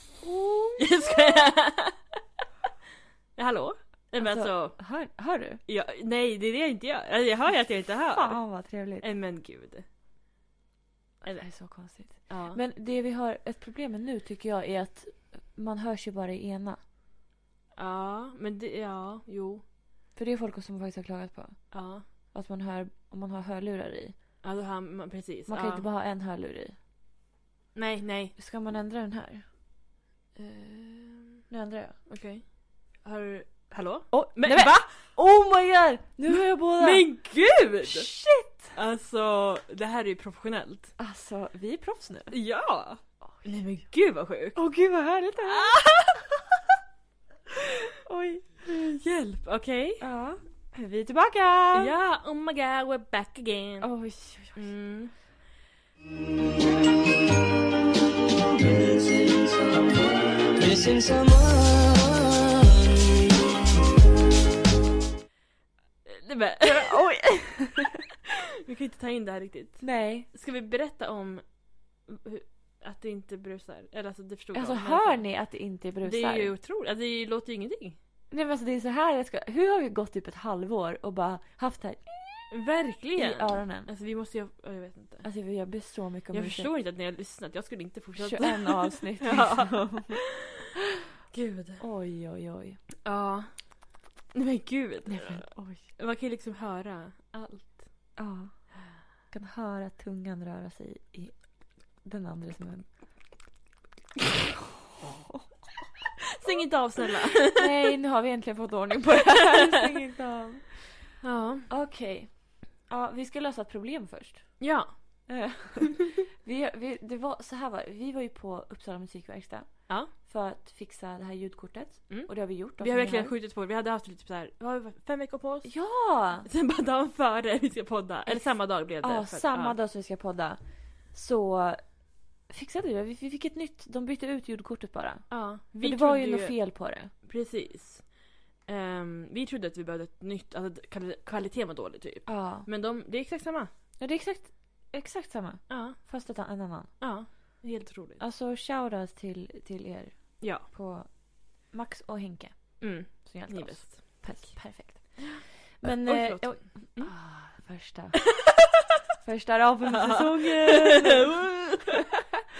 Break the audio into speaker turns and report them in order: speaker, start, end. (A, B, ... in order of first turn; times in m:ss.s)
0:00.2-0:00.9 A
0:00.8-0:02.0 B
0:03.4-0:04.8 B
0:04.2-0:05.6 A
0:05.7-0:09.8 B
0:08.1-0:09.0 A
0:11.2-0:11.5 B
0:11.2-0:16.8 A
0:12.3-0:12.6 B
0:17.8-0:19.6 B
0:20.2-0:24.2 A
0:21.7-0:22.1 B
0:24.4-0:25.9 B
0:25.5-0:26.8 A
0:27.8-0:28.4 B
0:28.4-0:29.4 A
0:30.4-0:31.4 B
0:31.5-0:32.0 A
0:32.1-0:35.0 B
0:34.1-0:37.2 A
0:36.3-0:38.1 B
0:37.8-0:38.7 A
0:38.7-0:41.0 B
0:41.0-0:42.3 A
0:42.3-0:44.6 B
0:44.6-0:45.8 A
0:45.4-0:46.3 B
0:48.1-0:48.7 A
0:48.6-0:50.0 B
0:50.0-0:51.9 A
0:51.7-0:55.2 B
0:53.8-0:54.7 A
0:58.3-1:03.5 C
1:06.0-1:07.0 B
1:06.6-1:08.0 A
1:08.6-1:15.3 B
1:09.8-1:10.3 A
1:14.5-1:16.5 A
1:16.0-1:18.0 B
1:18.3-1:22.5 A
1:22.5-1:25.3 B
1:23.2-1:23.9 A
1:25.2-1:26.7 A
1:26.3-1:30.7 B
1:28.2-1:30.2 A
1:31.3-1:31.8 B
1:31.8-1:32.8 A
1:33.0-1:33.8 B
1:34.3-1:38.1 B
1:35.1-1:35.9 A
1:38.2-1:38.7 A
1:39.3-1:43.1 A
1:45.0-1:45.5 A
1:46.4-1:47.7 B
1:47.5-1:54.8 A
1:51.2-1:51.7 B
1:54.6-1:55.4 B
1:55.3-2:03.3 A
2:02.1-2:05.9 B
2:05.6-2:06.5 A
2:06.4-2:09.8 B
2:08.3-2:17.1 A
2:15.3-2:23.7 B
2:22.3-2:22.7 A
2:24.0-2:27.0 A
2:25.7-2:26.0 B
2:27.0-2:28.2 B
2:28.2-2:38.4 A
2:30.4-2:30.7 B
2:32.8-2:35.4 B
2:36.0-2:37.2 B
2:39.2-2:41.4 A
2:39.9-2:42.0 B